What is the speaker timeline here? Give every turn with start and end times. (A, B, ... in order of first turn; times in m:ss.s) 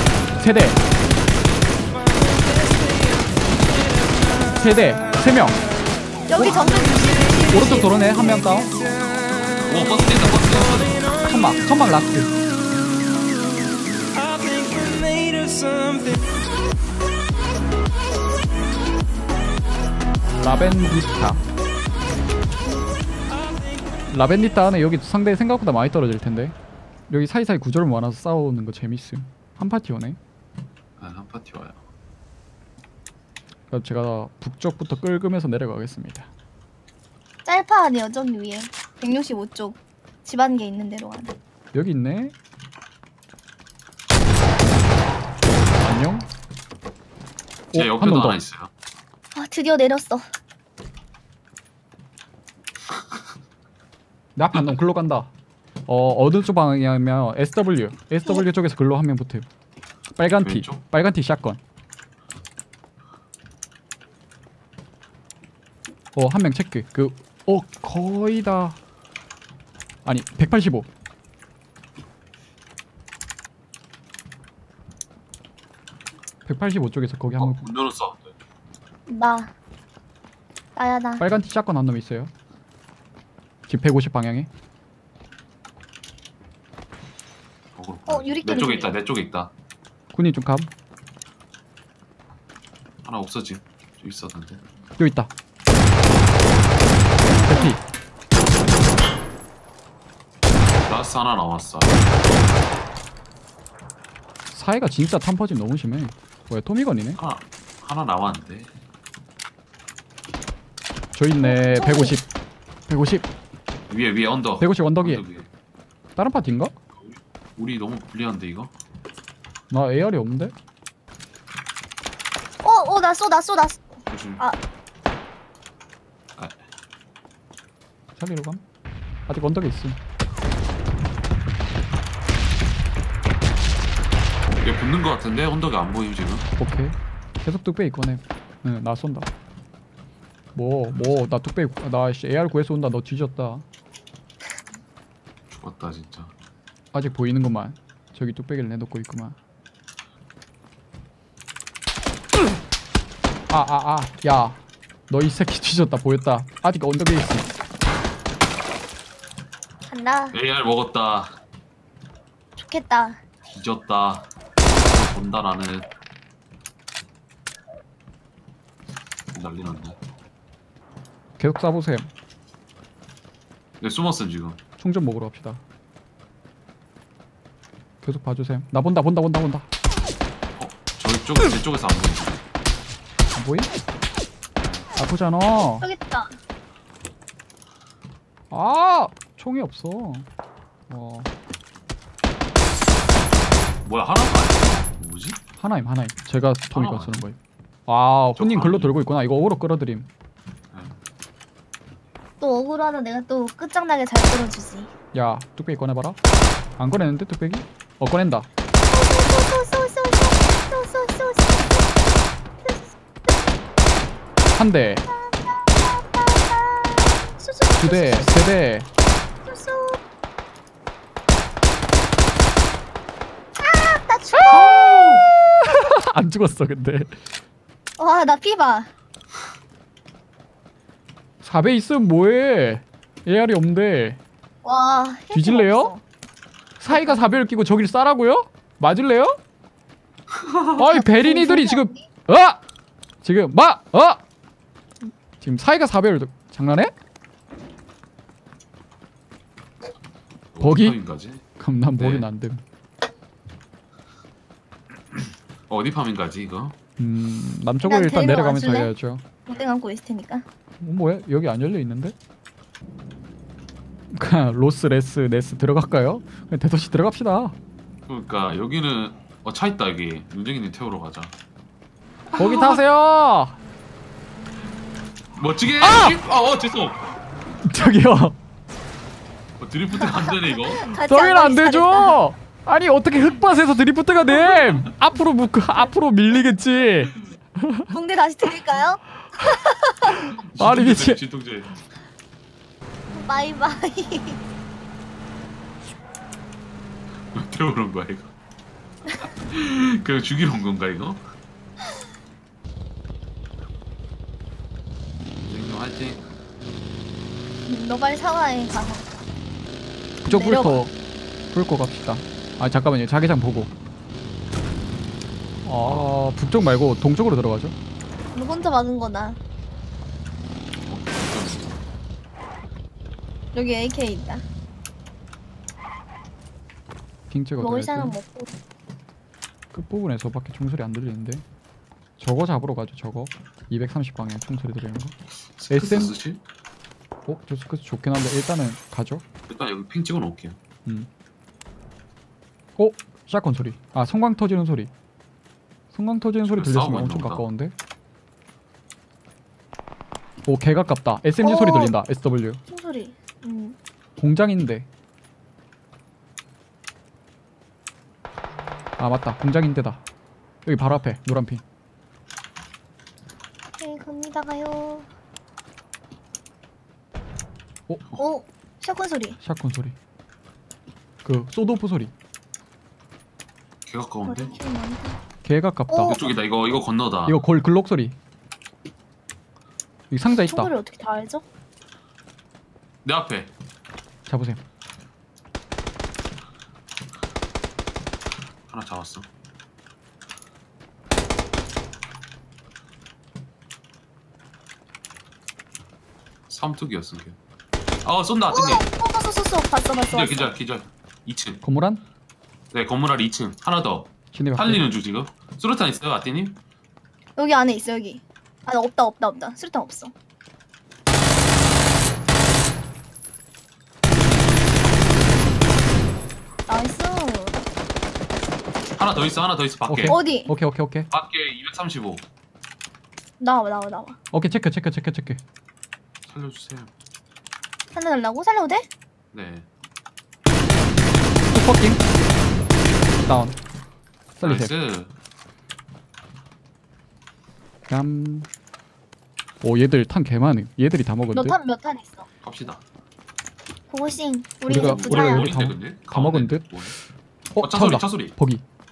0:00.4-0:00.8 A
0:04.6-0:05.6 A
0:06.3-0:07.9 B
0:06.4-0:06.7 A
0:07.5-0:08.7 A
0:09.2-0:11.1 C
0:11.2-0:12.3 A
0:20.4-0:21.4 A
0:24.1-0:26.6 A
0:27.1-0:30.2 A
0:31.0-0:31.8 C
0:33.7-0:36.3 A
0:37.4-0:41.3 B
0:41.7-0:42.3 A
0:45.8-0:46.2 A
0:47.7-0:48.4 A
0:47.7-0:48.7 C
0:49.3-0:50.2 B
0:54.4-0:55.3 A
0:55.9-0:59.4 A
1:00.2-1:01.6 A
1:00.4-1:00.8 C
1:06.1-1:08.8 A
1:10.0-1:10.9 A
1:16.4-1:17.7 A
1:17.4-1:18.3 C
1:19.1-1:19.5 B
1:20.8-1:21.2 B
1:21.2-1:22.3 A
1:23.7-1:24.5 A
1:27.7-1:29.5 C
1:28.1-1:28.9 B
1:30.1-1:30.7 A
1:33.0-1:34.6 C
1:35.0-1:35.3 A
1:37.2-1:37.8 B
1:37.4-1:37.8 A
1:40.9-1:42.0 C
1:44.5-1:47.2 A
1:47.2-1:48.7 C
1:51.1-1:52.3 A
1:51.4-1:52.2 B
1:52.9-1:53.3 A
1:53.9-1:55.5 C
1:54.6-1:55.2 A
1:56.2-1:56.7 A
1:57.0-1:58.7 C
1:59.7-2:00.5 A
2:02.6-2:04.6 B
2:04.1-2:04.4 C
2:06.4-2:06.6 C
2:08.2-2:08.6 A
2:09.3-2:10.0 A
2:14.6-2:16.4 C
2:16.6-2:19.3 A
2:20.5-2:23.6 A
2:25.5-2:26.3 C
2:26.9-2:29.4 A
2:33.5-2:37.5 A
2:39.9-2:40.4 B
2:40.3-2:41.4 C
2:42.6-2:43.2 B
2:43.5-2:45.9 C
2:49.3-2:50.0 C
2:51.4-2:52.1 A
2:53.8-2:54.6 C
2:54.8-2:55.6 A
2:58.0-2:59.7 A
3:00.6-3:02.4 C
3:03.3-3:03.7 A
3:05.0-3:05.8 A
3:05.6-3:06.4 B
3:08.5-3:10.3 A
3:10.9-3:11.3 A
3:13.8-3:15.4 C
3:15.6-3:20.1 A
3:16.7-3:17.2 C
3:18.4-3:19.0 C
3:20.7-3:21.0 C
3:22.4-3:24.9 B
3:25.1-3:26.2 A
3:26.8-3:28.5 A
3:28.9-3:31.9 B
3:32.6-3:33.6 B
3:34.5-3:35.0 A
3:35.1-3:38.4 B
3:37.8-3:38.9 A
3:39.4-3:40.0 B
3:43.6-3:44.8 B
3:44.4-3:45.3 C
3:45.6-3:47.2 A
3:48.0-3:48.9 B
3:51.4-3:54.2 A
3:54.6-3:56.0 B
3:55.3-3:55.9 A
3:56.8-3:59.4 A
3:56.9-3:57.4 B
4:00.3-4:00.7 C
4:00.8-4:02.6 A
4:00.9-4:02.1 B
4:03.2-4:04.2 A
4:05.4-4:06.9 A
4:10.5-4:11.4 C
4:10.6-4:11.0 A
4:11.6-4:12.6 A
4:12.0-4:12.3 C
4:15.1-4:16.7 C
4:17.0-4:19.2 A
4:17.8-4:18.9 B
4:19.5-4:20.4 B
4:20.8-4:22.1 A
4:24.1-4:27.5 A
4:28.1-4:31.3 C
4:32.3-4:32.8 C
4:32.4-4:33.6 A
4:35.3-4:37.0 C
4:35.8-4:36.2 A
4:37.6-4:38.4 A
4:39.6-4:40.9 C
4:40.7-4:42.2 B
4:41.0-4:47.9 A
4:44.3-4:44.8 B
4:47.9-4:50.2 B
4:50.1-4:51.2 A
4:50.4-4:51.8 C
4:53.1-4:54.4 B
4:57.3-4:58.3 C
4:59.3-5:01.2 C
5:05.4-5:06.2 C
5:07.7-5:09.2 B
5:10.2-5:10.9 A
5:10.3-5:10.8 B
5:11.5-5:13.7 A
5:15.6-5:17.7 A
5:15.8-5:16.1 C
5:18.3-5:19.4 B
5:20.9-5:21.8 C
5:23.5-5:24.4 B
5:27.3-5:28.2 A
5:27.6-5:28.6 B
5:29.7-5:31.4 A
5:32.2-5:35.1 A
5:35.3-5:36.4 C
5:35.7-5:36.1 A
5:37.3-5:39.2 A
5:39.5-5:40.6 C
5:42.8-5:44.9 A
5:45.9-5:47.7 A
5:46.5-5:47.5 C
5:50.4-5:52.6 A
5:51.4-5:52.0 B
5:52.7-5:53.8 B
5:54.2-5:54.9 A
5:59.0-6:00.0 A
6:00.6-6:01.6 A
6:03.8-6:05.1 B
6:08.2-6:09.4 B
6:09.4-6:09.9 A
6:11.2-6:12.1 A
6:13.8-6:14.6 C
6:14.2-6:15.2 B
6:15.4-6:16.2 A
6:15.9-6:16.2 B
6:16.0-6:17.4 C
6:17.2-6:18.2 A
6:20.1-6:20.7 A
6:20.4-6:21.4 B
6:23.0-6:23.5 C
6:24.3-6:24.6 A
6:28.7-6:29.3 C
6:36.5-6:37.4 C
6:38.0-6:38.8 C
6:38.5-6:40.5 B
6:40.0-6:41.6 C
6:41.6-6:42.0 A
6:42.7-6:46.6 C
6:44.3-6:44.8 A
6:47.4-6:50.1 B
6:56.7-6:57.7 B
6:59.0-7:00.2 C
6:59.9-7:01.1 A
7:00.1-7:00.5 B
7:01.1-7:02.2 C
7:03.4-7:04.2 B
7:04.3-7:05.4 A
7:06.2-7:06.9 C
7:07.9-7:08.9 B
7:09.3-7:09.6 C
7:11.5-7:12.0 A
7:13.2-7:13.6 A
7:14.4-7:14.7 A
7:14.4-7:15.1 C
7:17.9-7:18.5 A
7:19.6-7:21.6 A
7:21.3-7:22.3 B
7:22.4-7:22.8 C
7:23.9-7:25.5 B
7:24.7-7:27.0 A
7:24.7-7:27.0 C
7:27.6-7:28.6 A
7:27.6-7:28.3 C